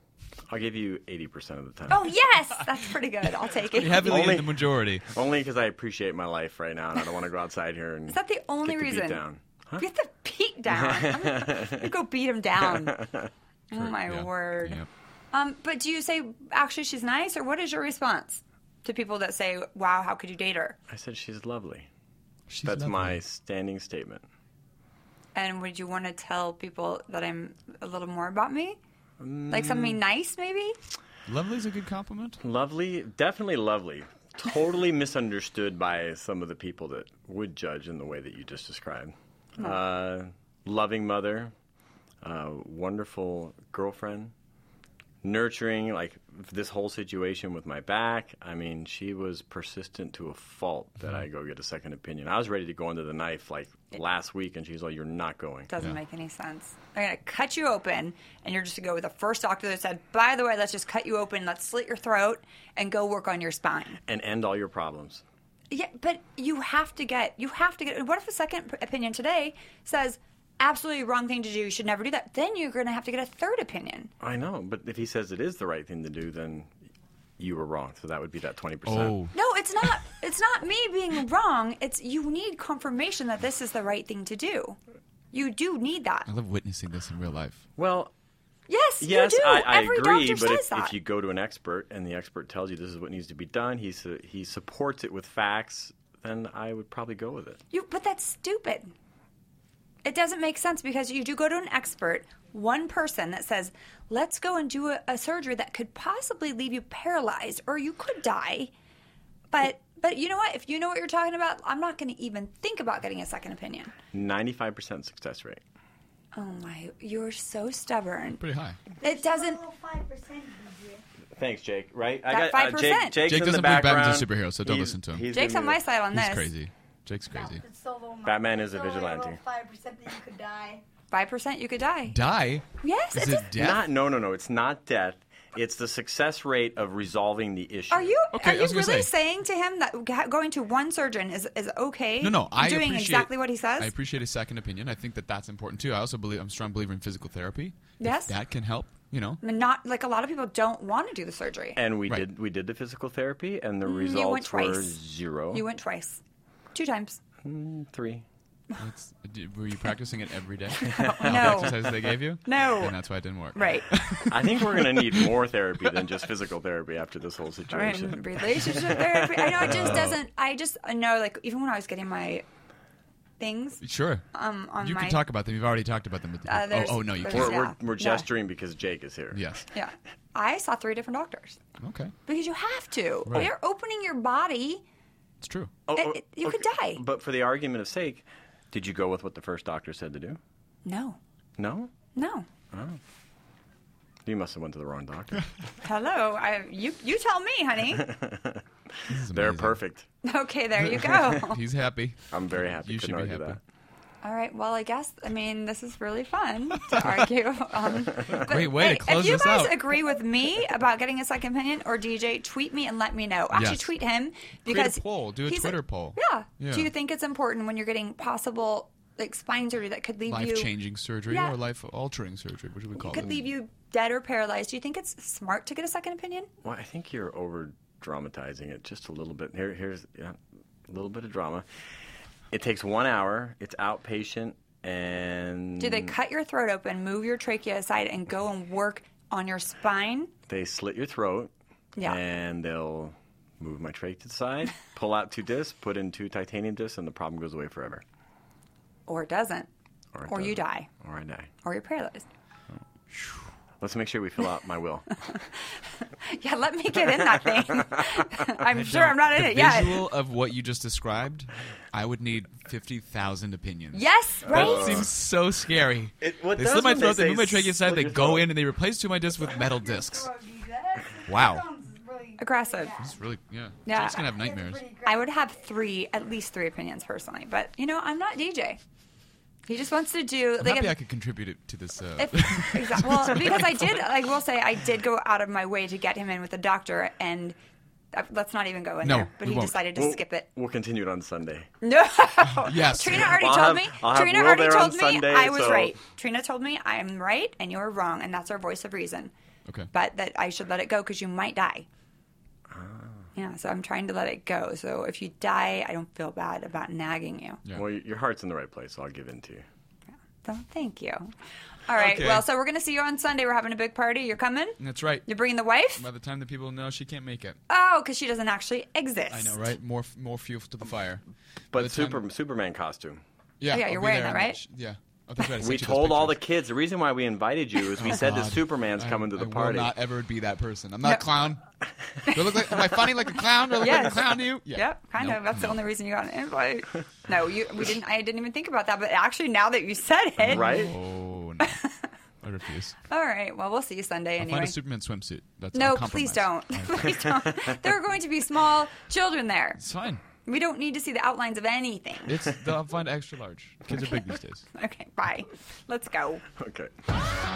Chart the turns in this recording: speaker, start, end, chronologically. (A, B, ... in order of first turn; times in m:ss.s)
0:00.5-0:02.1 A
0:01.9-0:04.3 B
0:03.7-0:05.0 C
0:04.0-0:09.8 A
0:08.1-0:09.2 B
0:09.8-0:13.0 B
0:10.7-0:11.8 A
0:12.6-0:13.3 A
0:13.7-0:14.8 B
0:13.7-0:14.9 C
0:15.3-0:20.8 B
0:20.9-0:21.9 A
0:22.5-0:23.2 C
0:22.6-0:24.2 A
0:25.3-0:28.8 B
0:29.2-0:30.0 A
0:29.5-0:30.8 B
0:31.3-0:32.4 C
0:32.4-0:41.5 A
0:42.2-0:44.3 A
0:45.2-0:55.7 A
0:55.7-1:04.0 B
1:04.0-1:05.2 A
1:05.7-1:14.1 B
1:14.2-1:16.7 A
1:17.4-1:19.2 A
1:18.8-1:19.3 C
1:19.3-1:24.8 B
1:25.3-1:26.3 B
1:26.3-1:27.6 C
1:27.8-1:28.1 A
1:28.7-1:30.9 B
1:29.0-1:37.6 A
1:37.7-1:38.9 B
1:40.0-1:48.7 B
1:49.5-1:53.9 B
1:54.1-1:55.6 A
1:56.3-1:58.4 B
1:58.4-1:58.8 C
1:58.9-2:01.0 D
1:59.0-1:59.6 B
2:01.4-2:05.8 A
2:02.3-2:03.2 B
2:03.2-2:05.3 C
2:05.3-2:06.5 B
2:06.1-2:07.6 C
2:07.3-2:10.8 D
2:08.2-2:09.4 A
2:11.1-2:12.2 B
2:12.1-2:13.8 C
2:12.8-2:13.5 B
2:13.5-2:18.1 A
2:17.9-2:23.9 B
2:18.3-2:19.1 C
2:22.2-2:29.4 C
2:28.0-2:28.3 B
2:29.4-2:31.8 B
2:31.8-2:35.6 A
2:33.8-2:35.0 B
2:35.5-2:36.2 B
2:36.7-2:37.2 B
2:37.4-2:38.2 A
2:38.8-2:45.3 C
2:40.8-2:41.7 A
2:40.8-2:43.0 B
2:43.5-2:43.9 B
2:44.3-2:50.1 A
2:47.7-2:52.4 B
2:49.7-2:50.2 C
2:53.4-2:55.2 B
2:53.8-2:54.2 C
2:54.8-2:57.6 C
2:56.4-2:58.2 B
2:57.2-2:59.6 A
2:59.3-2:59.6 C
2:59.7-3:01.6 B
3:01.8-3:02.1 C
3:02.3-3:04.8 B
3:05.4-3:05.7 C
3:05.9-3:10.4 A
3:05.9-3:07.0 B
3:10.8-3:11.2 B
3:11.6-3:11.9 A
3:12.1-3:12.5 B
3:12.7-3:13.0 A
3:14.2-3:15.5 A
3:15.8-3:18.1 B
3:18.0-3:18.6 A
3:19.1-3:19.8 C
3:19.3-3:20.1 A
3:20.2-3:21.6 B
3:20.9-3:23.6 C
3:22.3-3:23.6 A
3:24.2-3:40.7 B
3:26.9-3:27.2 C
3:28.3-3:29.9 C
3:33.5-3:33.9 C
3:34.6-3:36.9 C
3:40.3-3:43.4 C
3:41.3-3:41.6 B
3:43.0-3:46.5 B
3:46.6-3:51.6 A
3:52.5-3:56.1 A
3:55.8-4:00.3 B
4:00.5-4:08.0 A
4:09.1-4:09.7 B
4:10.1-4:11.5 A
4:10.3-4:10.9 B
4:11.6-4:12.2 B
4:13.1-4:13.4 C
4:13.8-4:15.1 A
4:16.2-4:20.1 B
4:17.4-4:18.0 A
4:18.7-4:30.3 C
4:23.9-4:25.0 B
4:24.4-4:25.1 A
4:26.2-4:28.5 A
4:29.4-4:33.1 D
4:31.3-4:31.7 C
4:32.4-4:32.9 B
4:33.0-4:34.8 C
4:33.8-4:34.3 B
4:34.0-4:35.3 D
4:35.0-4:38.8 B
4:39.7-4:40.9 B
4:40.6-4:44.0 C
4:42.2-4:47.6 B
4:48.1-4:50.5 B
4:49.0-4:49.8 C
4:49.9-4:51.7 A
4:51.8-4:59.3 B
4:52.6-4:53.4 C
4:53.1-4:56.0 A
4:59.9-5:01.9 B
5:02.7-5:03.2 A
5:03.3-5:07.6 B
5:07.7-5:09.6 A
5:10.4-5:11.3 B
5:11.9-5:16.0 B
5:12.0-5:12.4 C
5:14.8-5:15.3 C
5:16.0-5:17.6 C
5:17.7-5:19.6 B
5:19.3-5:22.2 C
5:21.7-5:23.2 A
5:23.6-5:26.4 C
5:23.7-5:24.6 B
5:25.6-5:29.9 A
5:28.0-5:31.6 C
5:32.3-5:33.0 B
5:32.3-5:35.8 C
5:33.8-5:40.9 B
5:40.4-5:41.8 C
5:40.4-5:41.0 A
5:41.6-5:42.1 B
5:42.4-5:43.0 C
5:43.1-5:44.8 B
5:44.4-5:47.3 C
5:45.7-5:49.8 B
5:49.8-5:50.2 C
5:50.4-5:52.4 B
5:52.3-5:54.6 C
5:53.9-5:54.2 B
5:54.7-5:56.4 B
5:56.6-5:56.9 A